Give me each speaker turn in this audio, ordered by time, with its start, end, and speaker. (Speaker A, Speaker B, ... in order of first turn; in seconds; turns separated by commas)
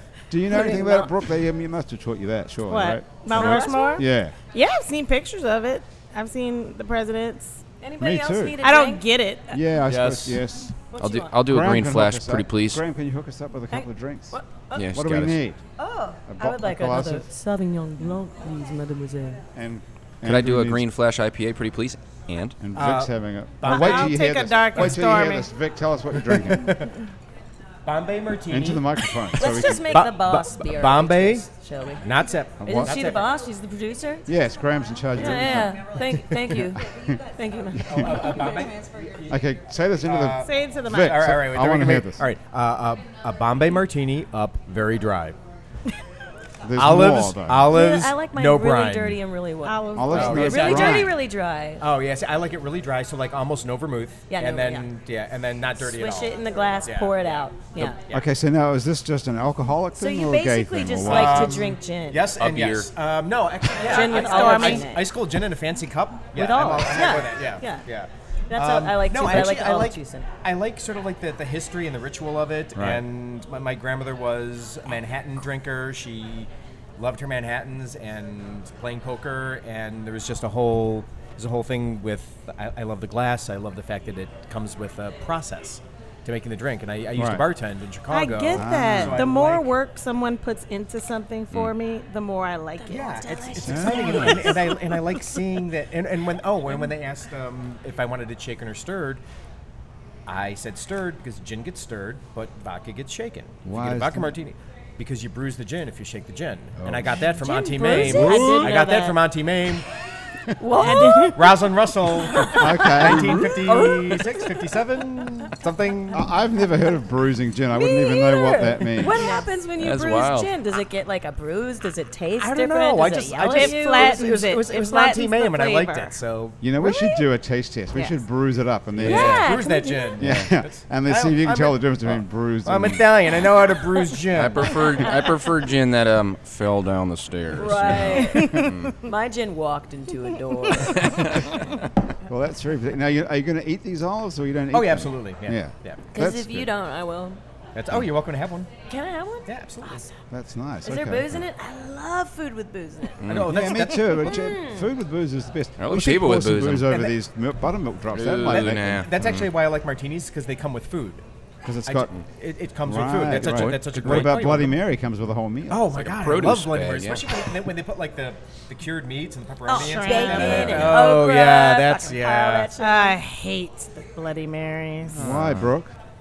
Speaker A: 0.3-4.4, Speaker B: 0.5-1.1, Speaker C: 2.7-7.6, Speaker B: 3.3-4.0, Speaker B: 7.8-9.1, Speaker A: 8.0-8.6, Speaker C: 8.6-9.6, Speaker A: 9.5-10.8, Speaker D: 9.9-10.4, Speaker B: 10.9-11.4, Speaker D: 11.0-12.8, Speaker A: 11.4-14.4, Speaker B: 13.7-15.0, Speaker D: 14.8-15.4, Speaker A: 14.9-15.6, Speaker B: 15.8-19.4, Speaker A: 16.3-17.3, Speaker A: 19.6-20.8, Speaker D: 20.2-22.6, Speaker A: 22.6-26.8, Speaker E: 22.8-24.2, Speaker C: 23.6-25.5, Speaker E: 26.2-26.9, Speaker E: 27.9-31.5, Speaker A: 28.5-30.0, Speaker B: 29.4-34.3, Speaker E: 32.0-33.3, Speaker A: 32.6-32.9, Speaker A: 34.3-35.9, Speaker B: 35.1-38.5, Speaker E: 35.2-36.6, Speaker A: 36.9-37.2, Speaker E: 37.8-39.4, Speaker A: 39.3-42.2, Speaker E: 40.0-45.4, Speaker C: 40.4-41.3, Speaker A: 46.6-47.7, Speaker E: 46.8-49.2, Speaker B: 47.7-51.9, Speaker C: 49.6-50.8, Speaker A: 49.9-51.1, Speaker E: 50.1-51.2, Speaker E: 51.8-58.3, Speaker B: 54.3-54.9, Speaker B: 55.8-58.0, Speaker A: 58.1-61.7, Speaker B: 59.9-62.3, Speaker E: 61.0-89.7, Speaker D: 62.4-62.9, Speaker B: 63.8-65.1, Speaker C: 63.8-65.0, Speaker B: 66.3-67.9, Speaker B: 68.5-70.3, Speaker A: 87.2-87.5, Speaker C: 88.1-93.5, Speaker A: 88.5-89.3, Speaker B: 92.8-94.6, Speaker E: 92.9-99.2, Speaker A: 93.6-94.2, Speaker C: 94.2-94.7, Speaker E: 100.3-109.9, Speaker A: 103.7-104.3, Speaker A: 106.8-107.2, Speaker B: 107.3-109.1, Speaker C: 107.9-109.2, Speaker A: 108.0-108.7, Speaker B: 110.6-111.4, Speaker C: 110.8-111.5, Speaker E: 111.3-116.2, Speaker B: 112.2-114.5, Speaker A: 112.5-113.5, Speaker A: 116.1-119.3, Speaker B: 117.7-124.2, Speaker C: 119.2-119.5, Speaker D: 119.8-120.5, Speaker E: 122.4-126.6, Speaker C: 123.5-126.2, Speaker A: 126.6-129.5, Speaker B: 126.8-127.2, Speaker C: 127.9-128.2, Speaker D: 129.0-129.5, Speaker B: 129.0-130.3, Speaker E: 129.2-134.8, Speaker A: 130.2-133.0, Speaker D: 130.2-130.5, Speaker D: 134.3-139.0, Speaker B: 137.6-141.1, Speaker C: 138.1-138.9, Speaker D: 140.9-141.8, Speaker A: 142.3-146.7, Speaker E: 144.7-146.0, Speaker B: 146.1-147.4, Speaker E: 147.8-148.7, Speaker B: 148.9-150.1, Speaker E: 149.5-150.1, Speaker A: 150.3-151.4, Speaker B: 150.8-153.2, Speaker D: 153.2-153.7, Speaker E: 153.2-154.3, Speaker A: 153.4-159.1, Speaker B: 154.1-154.9, Speaker D: 155.8-157.0, Speaker D: 158.1-159.5, Speaker E: 159.0-161.2, Speaker A: 161.7-162.1, Speaker E: 161.9-164.8, Speaker A: 162.8-165.9, Speaker D: 163.3-164.4, Speaker E: 165.7-172.7, Speaker D: 165.9-167.4, Speaker B: 169.7-173.2, Speaker C: 169.7-170.8, Speaker D: 170.3-171.0, Speaker C: 172.8-175.2, Speaker D: 175.1-175.7, Speaker A: 175.2-175.9